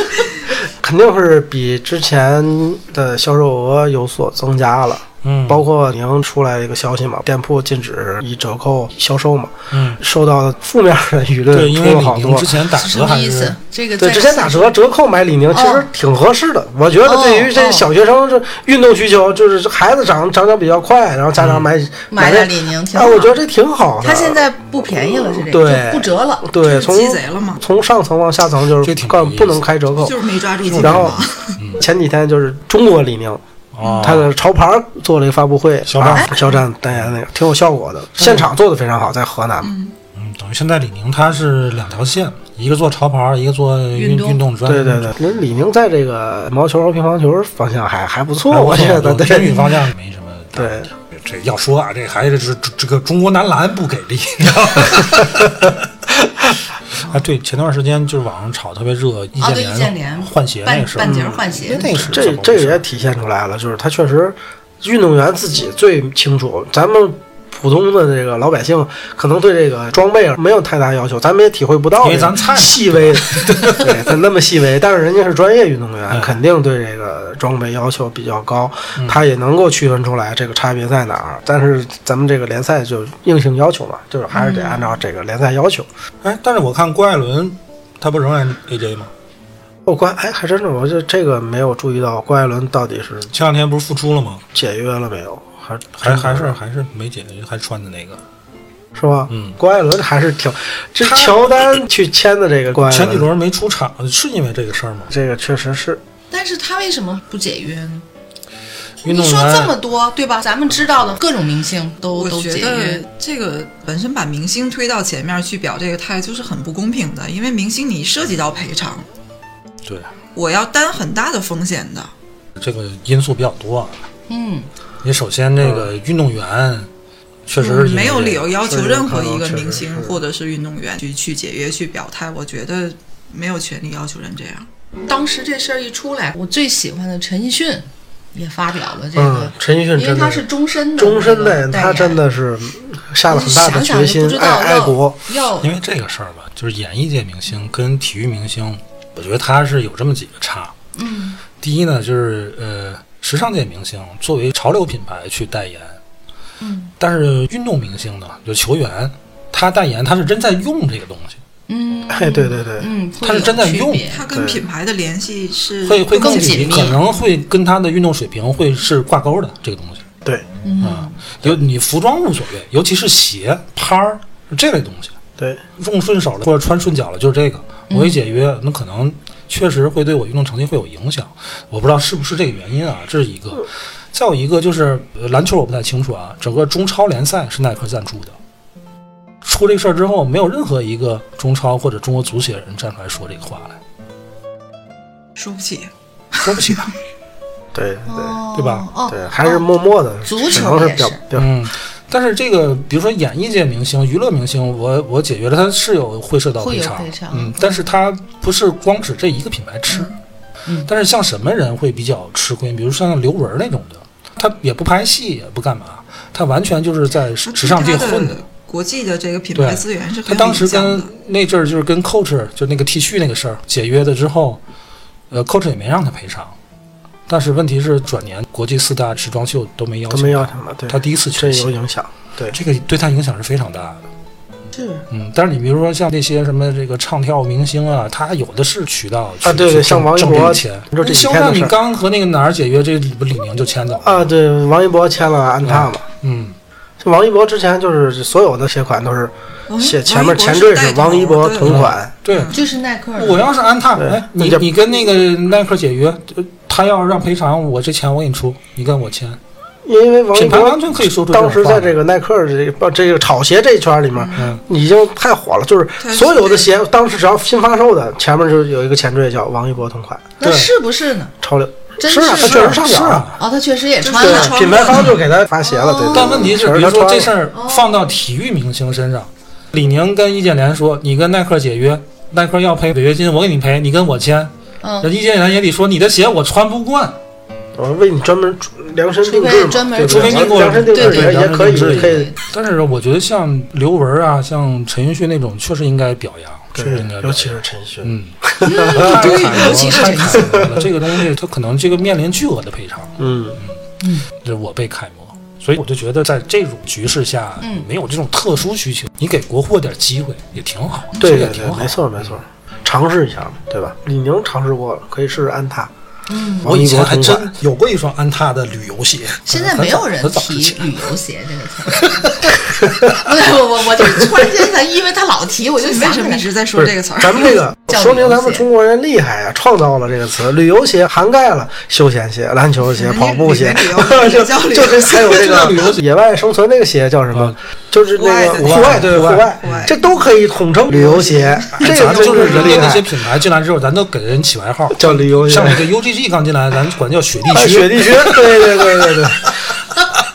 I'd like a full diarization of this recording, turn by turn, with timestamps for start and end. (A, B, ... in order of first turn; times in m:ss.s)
0:00.6-0:12.6 A
0:05.2-0:05.6 B
0:09.7-0:10.0 B
0:11.5-0:13.6 B
0:12.7-0:14.8 C
0:14.0-0:24.4 A
0:15.5-0:15.9 C
0:17.0-0:17.9 C
0:21.4-0:21.7 B
0:22.1-0:23.4 C
0:24.0-0:26.5 C
0:25.3-0:30.2 A
0:26.6-0:27.6 D
0:28.8-0:29.6 B
0:30.0-0:31.6 D
0:30.6-0:31.8 B
0:30.8-0:31.2 A
0:31.8-0:33.4 A
0:33.7-0:34.3 B
0:33.8-0:34.2 D
0:34.0-0:39.7 A
0:35.9-0:37.2 B
0:38.2-0:38.5 B
0:39.6-0:39.9 D
0:40.1-0:45.1 B
0:43.9-0:44.4 C
0:44.6-0:49.6 A
0:48.5-0:55.8 B
0:50.6-0:50.9 A
0:57.0-1:02.8 B
0:59.4-1:02.2 C
1:01.0-1:25.9 A
1:12.0-1:13.9 B
1:16.1-1:16.4 B
1:24.3-1:25.0 C
1:26.2-1:29.1 B
1:29.9-1:33.3 A
1:33.3-1:34.4 B
1:34.5-1:36.6 A
1:36.0-1:38.2 B
1:39.0-1:43.3 A
1:39.3-1:39.6 B
1:41.0-1:41.7 B
1:42.8-1:45.1 B
1:45.1-1:46.0 A
1:46.3-1:48.0 C
1:49.0-1:49.7 B
1:49.0-1:53.0 C
1:52.1-1:59.1 D
1:59.8-2:00.1 B
2:00.4-2:02.1 D
2:02.6-2:04.1 B
2:04.3-2:04.7 C
2:05.0-2:06.9 B
2:05.6-2:05.9 A
2:07.5-2:08.4 B
2:07.6-2:14.7 D
2:08.6-2:10.2 A
2:15.1-2:22.2 C
2:19.2-2:20.5 A
2:21.0-2:25.2 A
2:23.3-2:25.7 C
2:25.6-2:30.7 B
2:31.0-2:31.4 C
2:31.6-2:36.0 B
2:36.6-2:36.9 C
2:37.0-2:41.4 B
2:41.7-2:44.2 C
2:42.1-2:42.9 A
2:43.2-2:44.1 B
2:44.1-2:47.0 D
2:44.3-2:44.6 A
2:45.8-2:50.0 B
2:46.1-2:47.0 C
2:50.6-2:51.2 C
2:50.8-2:55.2 B
2:55.8-3:08.4 B
2:57.9-2:58.2 C
3:09.4-3:13.8 B
3:15.4-3:16.9 D
3:16.4-3:16.9 B
3:17.7-3:18.4 A
3:18.1-3:19.7 C
3:18.6-3:18.8 B
3:19.1-3:21.5 A
3:20.2-3:21.2 C
3:21.3-3:30.1 B
3:26.6-3:27.9 C
3:29.9-3:30.2 D
3:30.9-3:38.4 B
3:37.5-3:41.1 D
3:39.6-3:44.6 B
3:45.3-3:46.6 B
3:47.3-3:51.7 B
3:50.1-3:52.6 A
3:52.5-3:54.0 B
3:54.7-3:55.1 C
3:55.1-4:04.3 B
3:59.4-4:01.8 A
4:04.0-4:06.0 A
4:05.6-4:06.6 B
4:07.0-4:12.1 A
4:09.7-4:12.6 D
4:11.6-4:12.6 B
4:12.5-4:13.5 C
4:13.2-4:19.4 B
4:14.0-4:14.7 A
4:19.8-4:30.3 A
4:20.3-4:22.0 B
4:24.2-4:24.4 C
4:26.0-4:26.7 D
4:30.4-4:31.3 C
4:30.4-4:30.7 B
4:31.4-4:33.3 A
4:32.0-4:32.8 C
4:32.2-4:33.4 B
4:33.4-4:35.1 C
4:34.0-4:35.2 D
4:34.2-4:37.3 A
4:35.6-4:36.6 C
4:36.1-4:47.2 B
4:37.5-4:38.1 C
4:44.8-4:45.1 C
4:47.8-4:52.3 A
4:49.2-4:52.4 C
4:50.0-5:03.8 B
4:56.8-5:00.9 A
4:58.6-5:00.7 C
4:59.2-4:59.6 D
5:03.2-5:03.6 A
5:04.0-5:04.3 C
5:04.3-5:12.4 B
5:07.6-5:07.9 C
5:11.2-5:15.9 A
5:16.3-5:16.7 C
5:16.6-5:17.5 A
5:16.6-5:21.1 B
5:19.5-5:22.4 C
5:21.9-5:22.6 B
5:23.1-5:26.5 C
5:24.0-5:24.5 A
5:25.8-5:27.6 D
5:26.8-5:43.2 A
5:27.9-5:28.7 C
5:32.8-5:35.8 D
5:35.2-5:36.0 B
5:37.3-5:37.6 B
5:38.1-5:40.0 D
5:38.6-5:39.9 B
5:41.7-5:49.4 B
5:44.9-5:45.9 A
5:47.5-5:49.6 A